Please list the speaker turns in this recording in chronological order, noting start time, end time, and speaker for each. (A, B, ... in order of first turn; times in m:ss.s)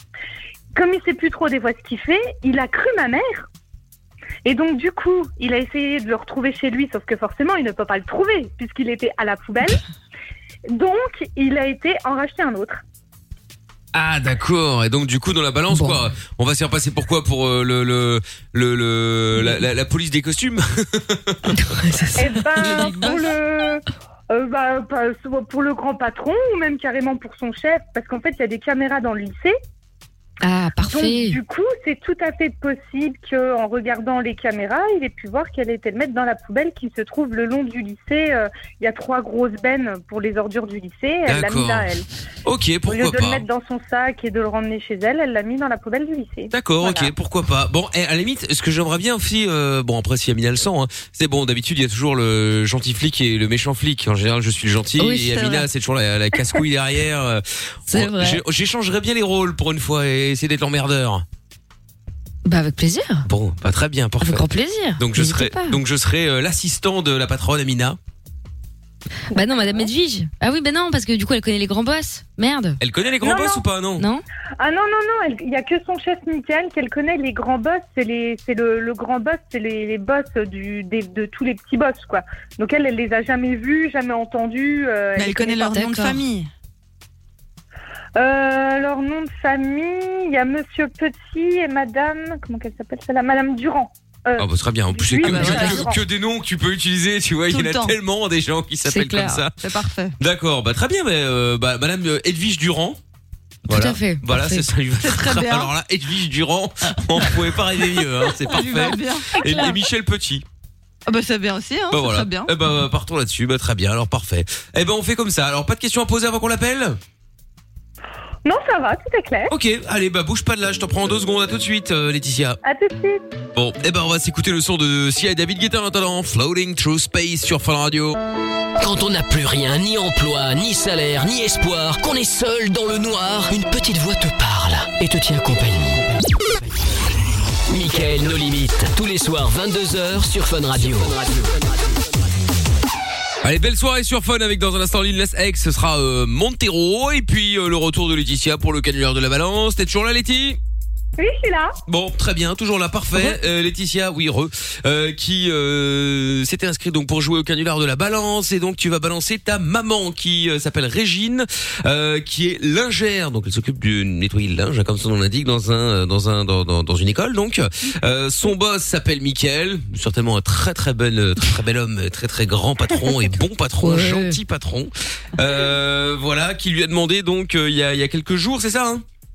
0:00.7-0:03.5 A
0:04.4-0:09.8 A
0:10.7-0:12.8 A
0:13.9-0:21.5 B
0:15.7-0:16.0 C
0:21.5-0:22.6 C
0:22.2-0:29.6 A
0:22.6-0:23.2 D
0:30.4-0:31.4 C
0:30.8-0:42.1 A
0:41.2-0:43.4 B
0:42.8-0:47.1 A
0:46.5-1:01.2 B
0:55.0-0:55.6 D
0:57.9-0:58.4 C
1:02.4-1:03.3 C
1:03.3-1:04.4 B
1:04.2-1:05.8 C
1:05.0-1:08.0 B
1:09.3-1:12.8 C
1:09.4-1:09.8 A
1:12.8-1:14.0 B
1:13.2-1:13.6 A
1:14.0-1:14.2 C
1:14.6-1:25.8 A
1:25.2-1:26.5 D
1:25.7-1:26.1 C
1:28.2-1:36.0 A
1:34.4-1:39.5 B
1:35.2-1:35.8 D
1:37.5-1:38.0 D
1:38.8-1:39.4 C
1:39.6-1:40.1 D
1:40.2-1:43.0 B
1:43.7-1:44.7 C
1:43.7-1:50.4 B
1:45.0-1:45.7 D
1:48.4-1:49.4 D
1:49.4-1:49.8 A
1:51.1-1:52.5 D
1:51.9-1:57.0 B
1:58.4-1:59.5 A
1:59.5-2:02.6 B
2:02.6-2:03.2 A
2:03.5-2:08.2 B
2:08.8-2:16.2 E
2:17.7-2:21.6 E
2:23.4-2:30.6 B
2:31.2-2:31.7 A
2:31.9-2:59.0 B
2:53.8-2:54.4 C